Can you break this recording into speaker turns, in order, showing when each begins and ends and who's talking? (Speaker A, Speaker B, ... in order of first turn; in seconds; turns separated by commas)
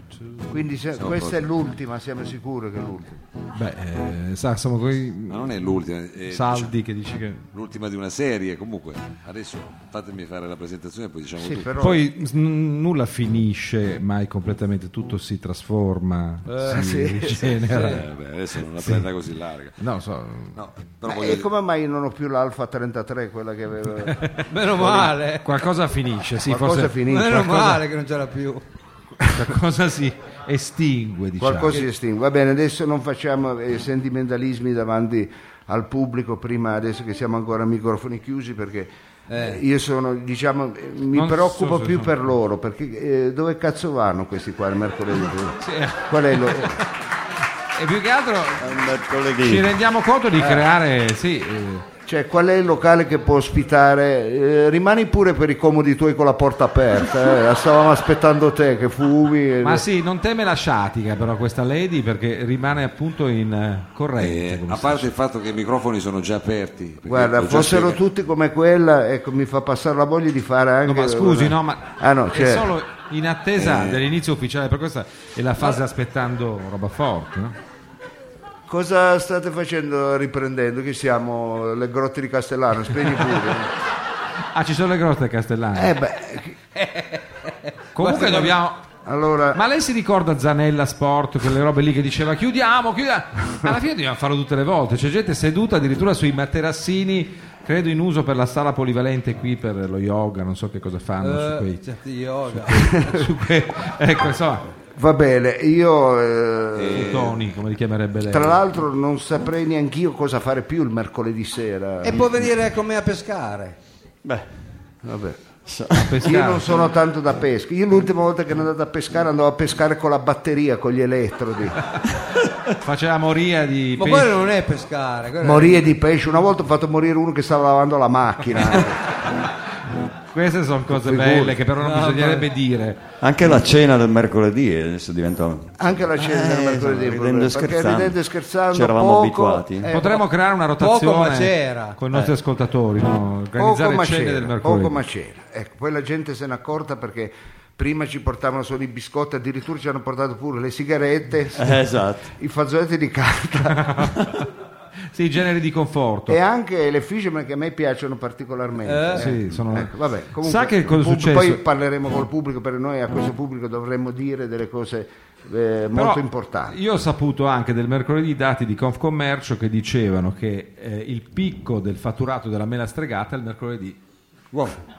Speaker A: 0.5-3.2, Speaker B: 1.0-1.4, Speaker C: 3.5-5.7, Speaker B: 5.3-6.7, Speaker C: 6.3-7.5, Speaker B: 7.5-11.7, Speaker A: 11.4-12.1, Speaker C: 11.8-18.1, Speaker D: 16.5-16.9, Speaker A: 16.7-17.4, Speaker B: 17.5-19.8, Speaker D: 17.7-18.0, Speaker C: 18.8-19.1, Speaker C: 19.8-20.6, Speaker B: 20.6-21.5, Speaker A: 21.1-25.1, Speaker C: 24.0-27.8, Speaker D: 24.5-25.5, Speaker A: 26.4-27.4, Speaker D: 27.0-28.6, Speaker C: 29.2-31.8, Speaker A: 31.4-46.8, Speaker D: 39.3-39.6, Speaker C: 41.1-42.2, Speaker C: 45.6-46.9, Speaker C: 47.8-48.8, Speaker E: 48.6-49.7, Speaker C: 49.4-51.9, Speaker A: 52.1-59.9, Speaker C: 59.6-65.0, Speaker B: 64.2-68.0, Speaker A: 67.0-72.7, Speaker C: 70.8-77.5, Speaker B: 73.6-74.0, Speaker A: 78.7-83.7, Speaker C: 84.5-86.0, Speaker A: 85.7-86.6, Speaker D: 86.8-88.5, Speaker C: 88.0-88.8, Speaker A: 89.1-89.6, Speaker C: 89.5-101.8, Speaker D: 101.2-103.2, Speaker C: 102.5-104.7, Speaker A: 102.8-103.2, Speaker A: 105.0-107.2, Speaker B: 106.7-107.4, Speaker C: 106.9-108.6, Speaker A: 108.3-112.3, Speaker D: 112.0-113.8, Speaker A: 115.0-115.4, Speaker E: 115.7-116.2, Speaker C: 116.0-116.8, Speaker A: 116.2-121.8, Speaker C: 122.8-124.5, Speaker D: 124.0-125.8, Speaker A: 125.4-129.0, Speaker C: 130.3-133.1, Speaker A: 130.9-131.6, Speaker D: 131.8-132.5, Speaker E: 133.2-138.2, Speaker A: 135.8-140.2, Speaker E: 138.7-139.9, Speaker C: 139.9-145.0, Speaker D: 140.8-142.0, Speaker A: 143.6-151.8, Speaker E: 151.6-152.3, Speaker A: 152.4-154.0, Speaker C: 153.8-154.1, Speaker C: 155.1-156.4, Speaker A: 156.3-166.8, Speaker D: 158.9-159.4, Speaker C: 159.2-161.6, Speaker C: 165.9-174.0